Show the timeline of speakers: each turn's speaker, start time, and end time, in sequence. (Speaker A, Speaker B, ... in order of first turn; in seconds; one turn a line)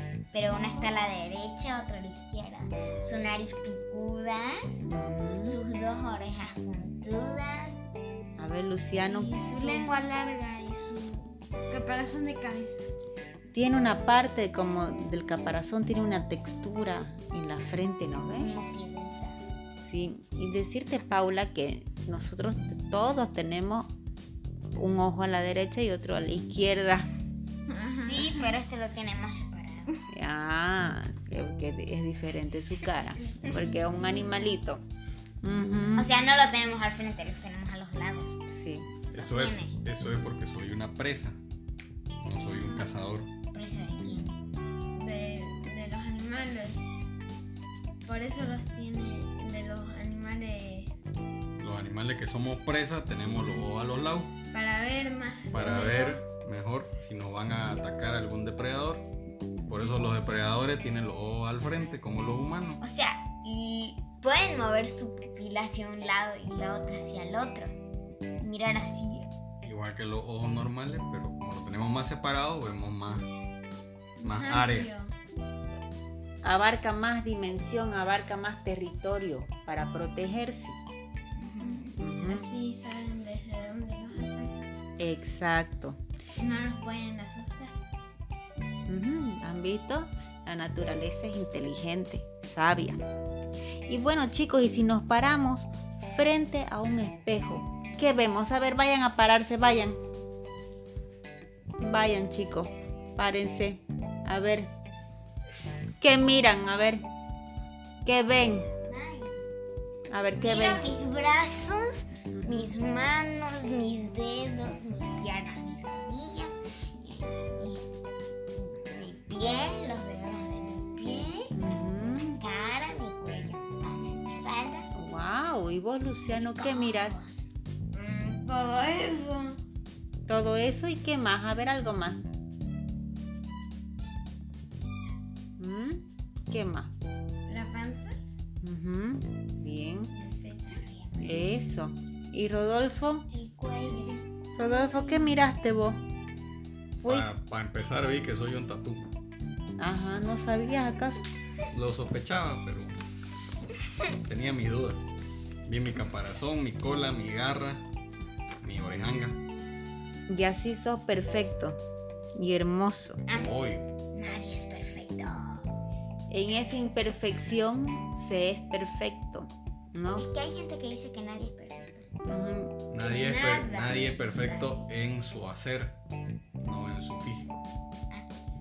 Speaker A: 0.3-4.6
Speaker B: 0.3-0.9
Speaker C: 4.8-5.6
Speaker A: 5.4-7.9
Speaker C: 8.4-9.9
Speaker B: 9.0-12.9
Speaker C: 13.5-18.6
Speaker A: 18.4-19.5
Speaker C: 19.8-23.9
Speaker C: 24.8-27.1
Speaker B: 27.7-28.5
Speaker A: 28.0-29.9
Speaker C: 30.1-34.8
Speaker C: 35.4-36.1
Speaker A: 36.0-38.4
Speaker C: 38.5-38.9
Speaker D: 39.1-41.4
Speaker A: 39.2-39.8
Speaker D: 42.2-43.3
Speaker A: 43.5-44.3
Speaker B: 45.0-46.8
Speaker B: 48.0-50.9
Speaker D: 51.6-54.3
Speaker B: 54.5-56.2
Speaker D: 55.5-59.1
Speaker D: 59.7-62.8
Speaker A: 62.8-67.7
Speaker A: 68.4-69.3
Speaker D: 69.6-73.3
Speaker B: 74.2-75.1
Speaker D: 74.2-74.9
Speaker C: 76.4-80.8
Speaker A: 81.4-81.9
Speaker B: 81.5-84.6
Speaker C: 82.0-82.5
Speaker C: 85.0-86.0
Speaker B: 86.4-87.8
Speaker C: 88.9-93.0
Speaker C: 93.9-100.0
Speaker C: 101.8-104.7
Speaker C: 106.0-107.0
Speaker C: 108.0-108.7
Speaker A: 108.9-109.4
Speaker C: 110.1-111.0
Speaker A: 110.3-117.8
Speaker C: 112.4-112.7
Speaker A: 118.5-124.9
Speaker C: 121.5-122.4
Speaker C: 124.9-127.2
Speaker A: 126.3-127.5
Speaker B: 127.9-129.6
Speaker C: 130.3-132.2
Speaker C: 135.6-136.9
Speaker B: 137.5-138.2
Speaker C: 138.6-140.1
Speaker B: 140.1-140.8
Speaker A: 140.8-141.2
Speaker C: 141.2-143.3
Speaker A: 143.3-144.2
Speaker B: 143.6-145.4
Speaker C: 144.6-146.0
Speaker C: 147.0-147.3
Speaker D: 147.1-149.1
Speaker C: 149.8-151.3
Speaker D: 151.7-153.0
Speaker D: 154.2-155.0
Speaker D: 155.7-157.8
Speaker D: 158.6-159.4
Speaker C: 160.3-161.8
Speaker C: 162.3-163.2
Speaker D: 163.3-163.9
Speaker A: 164.1-165.7
Speaker C: 166.3-170.3
Speaker A: 170.2-172.1
Speaker C: 172.3-172.7
Speaker D: 172.9-176.0
Speaker A: 173.0-174.8
Speaker B: 173.0-173.9
Speaker D: 176.6-177.7